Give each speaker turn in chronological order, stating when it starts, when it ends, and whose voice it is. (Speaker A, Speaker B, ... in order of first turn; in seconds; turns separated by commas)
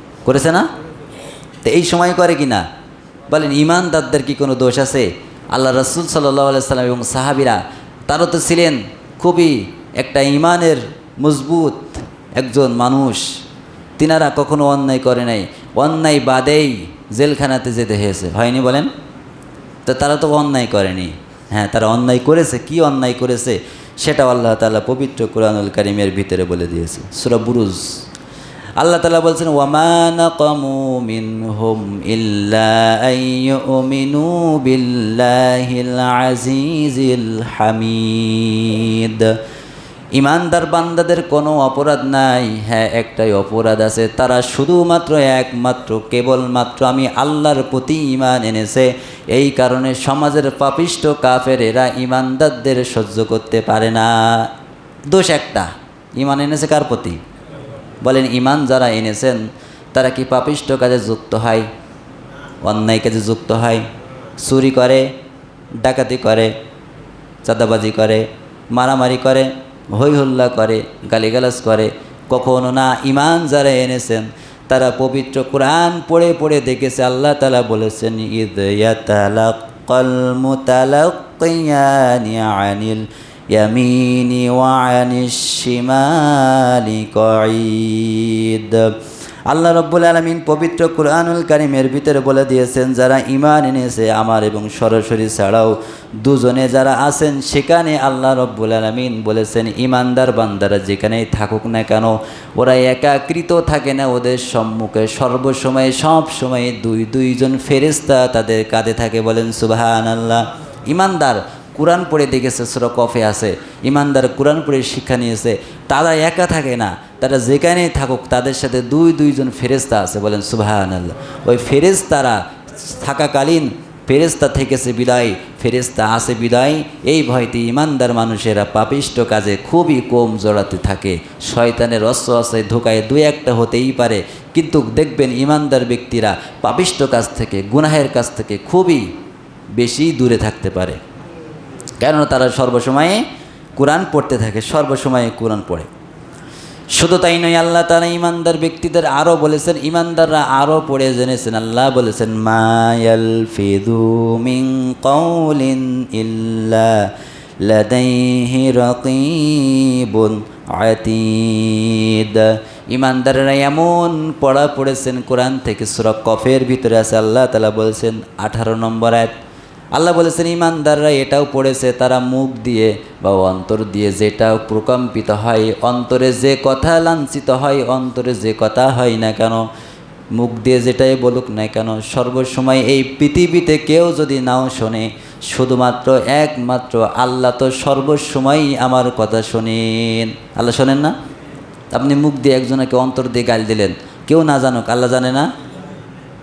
Speaker A: 0.2-0.7, Speaker A: 1.6-2.7, Speaker A: 3.3-13.4, Speaker A: 14.0-18.9, Speaker A: 19.9-28.0, Speaker A: 28.8-39.4, Speaker A: 40.1-54.5, Speaker A: 55.1-57.2, Speaker A: 58.0-61.7, Speaker A: 62.6-63.8, Speaker A: 64.4-65.1, Speaker A: 65.8-66.5, Speaker A: 67.5-89.0, Speaker A: 89.5-139.1, Speaker A: 139.8-141.0, Speaker A: 142.0-143.2, Speaker A: 143.8-145.9, Speaker A: 147.0-157.1, Speaker A: 157.6-169.3, Speaker A: 169.9-179.7, Speaker A: 180.3-191.2, Speaker A: 191.9-195.5